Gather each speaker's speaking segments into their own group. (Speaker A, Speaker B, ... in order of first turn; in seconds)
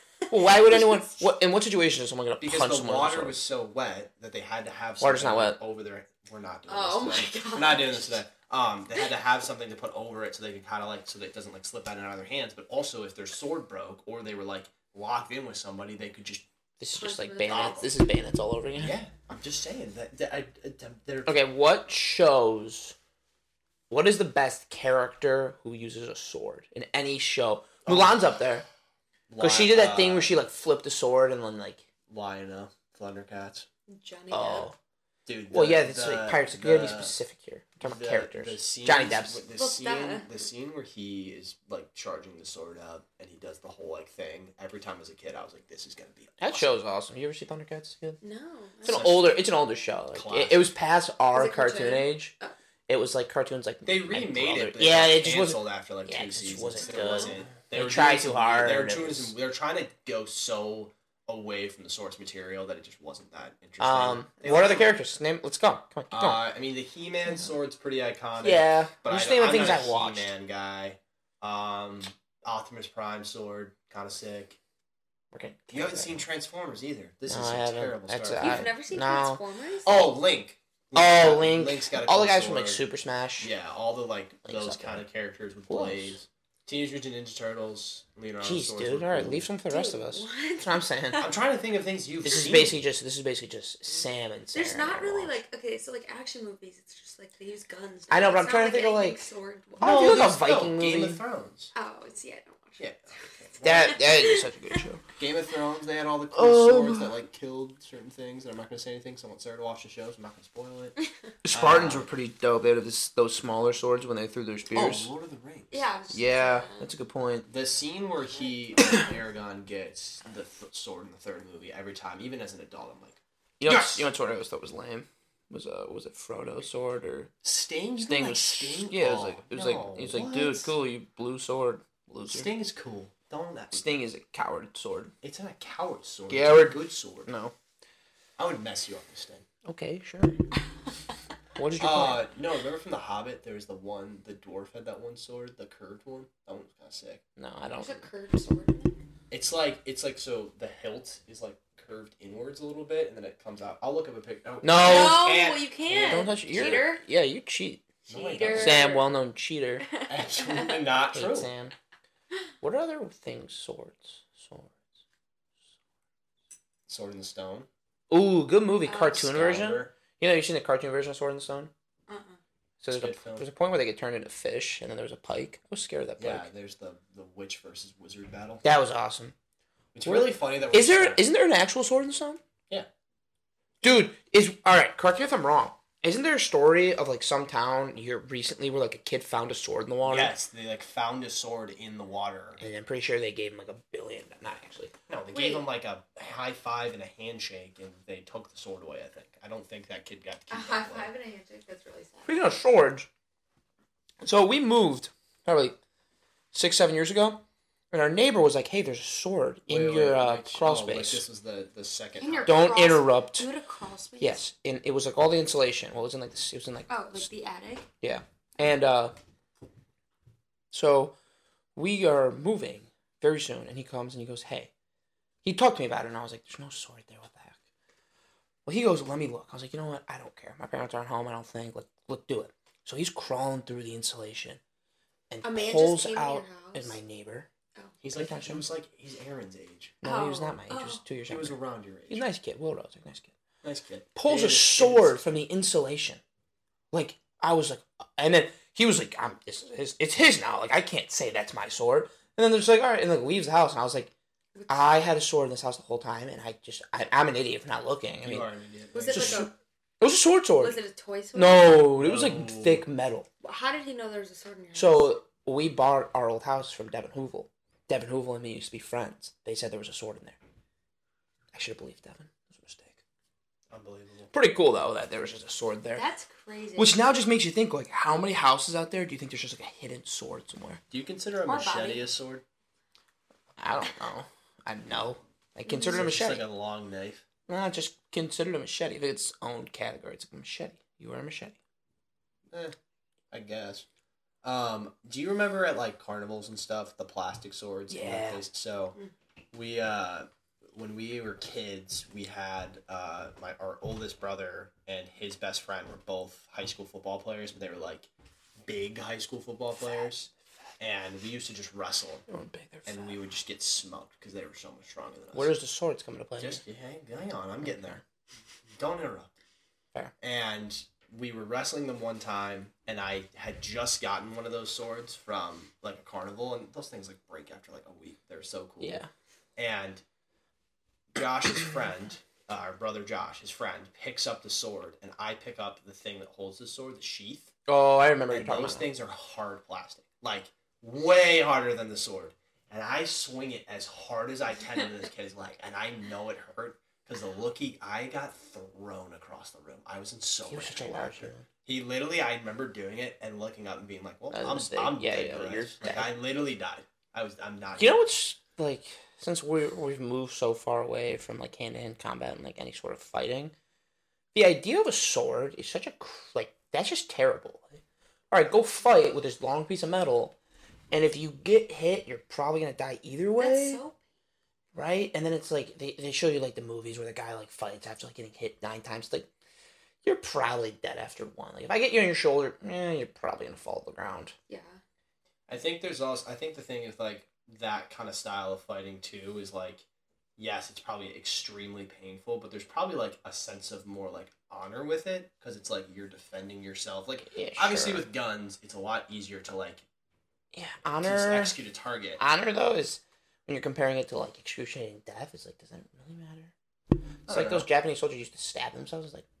Speaker A: 0.3-3.4, 5.0-5.6, 16.8-19.0, 21.2-22.9, 23.9-28.6, 29.4-31.8, 34.3-34.7, 35.5-39.4, 46.4-48.2, 48.8-52.3, 52.9-59.3, 63.8-66.5, 67.2-67.5, 68.4-70.3, 75.3-76.2, 77.3-79.4, 80.9-83.5, 84.4-85.0, 85.7-86.2, 88.4-91.3, 92.2-95.4, 98.1-99.3, 99.8-101.2, 103.6-105.0, 106.3-107.2, 111.4-115.1, 116.1-117.5, 123.6-127.3, 128.1-132.5, 133.7-135.1, 136.3-137.5, 139.7-140.3, 141.6-142.3, 147.4-148.1, 154.6-155.3, 156.0-157.9, 158.5-159.8, 161.1-161.7, 162.6-164.8, 168.1-171.7, 172.8-176.5, 178.6-179.3, 180.0-182.4, 183.8-190.3, 192.6-194.9, 202.2-203.1, 204.2-205.8, 206.5-211.2, 212.4-213.5, 214.2-217.3, 218.0-219.1, 220.7-221.1, 221.8-224.7, 225.4-227.5, 228.7-234.6, 235.3-237.5, 238.1-238.7, 240.0-241.6, 242.1-243.3, 244.1-246.2, 246.9-254.1, 254.7-258.5, 259.1-260.8, 261.3-263.3, 264.7-270.4, 271.5-273.0, 274.3-276.1, 276.8-280.8, 283.6-286.4, 287.5-291.6, 297.9-298.4, 309.8-310.1, 312.3-313.2, 315.3-316.6, 317.6-318.0, 328.8-329.1, 337.7-338.9, 350.5-351.5, 354.3-356.1, 357.8-363.5, 364.3-367.8, 368.3-370.3, 370.9-373.8, 374.7-379.3, 380.0-384.3, 397.2-398.1, 400.5-401.6, 402.2-406.5, 407.3-409.2
Speaker B: 0.4-1.1, 6.7-8.2, 16.9-17.9, 33.9-34.7, 39.5-40.5, 48.2-49.1, 51.3-52.5, 56.8-57.4, 78.3-80.2, 89.7-91.4, 92.2-92.6, 94.5-100.3, 101.7-104.8, 115.7-116.9, 118.5-119.2, 147.7-148.9, 154.7-157.0, 158.1-159.1, 159.9-161.0, 168.8-169.2, 172.1-172.4, 195.3-195.7, 200.5-202.6, 212.2-214.4, 216.9-217.9, 235.4-237.0, 240.0-241.0, 254.5-255.1, 258.9-259.5, 260.6-261.9, 263.4-265.1, 275.9-277.1, 281.4-282.2, 285.7-286.1, 373.4-374.0, 384.5-384.8
Speaker C: 2.4-16.4, 17.4-17.9, 18.8-21.4, 27.8-28.2, 29.3-30.4, 32.1-33.7, 35.2-37.2, 37.8-46.7, 48.9-49.4, 50.1-50.7, 53.8-64.9, 66.1-74.6, 75.7-78.6, 79.8-82.8, 83.4-89.5, 91.2-92.8, 99.8-101.7, 102.8-104.0, 105.2-110.9, 111.5-112.1, 114.7-115.8, 117.5-124.1, 127.4-130.7, 132.3-133.9, 135.2-137.3, 138.4-139.4, 141.7-147.2, 149.3-156.9, 158.1-158.8, 160.1-161.5, 166.9-167.7, 169.1-169.9, 172.9-173.5, 176.2-178.6, 179.9-181.2, 190.0-192.7, 195.1-201.1, 209.7-212.6, 238.0-240.0, 241.2-242.3, 243.6-245.1, 258.2-259.4, 261.9-262.9, 273.7-274.3, 280.9-282.4, 285.8-287.2, 292.5-292.7, 293.3-293.8, 294.4-299.0, 299.5-308.1, 308.6-312.2, 312.9-315.5, 316.4-318.0, 318.7-319.3, 320.2-329.0, 329.6-330.0, 331.1-337.5, 338.3-358.0, 385.5-389.8, 390.4-399.8, 401.0-402.2, 407.3-407.7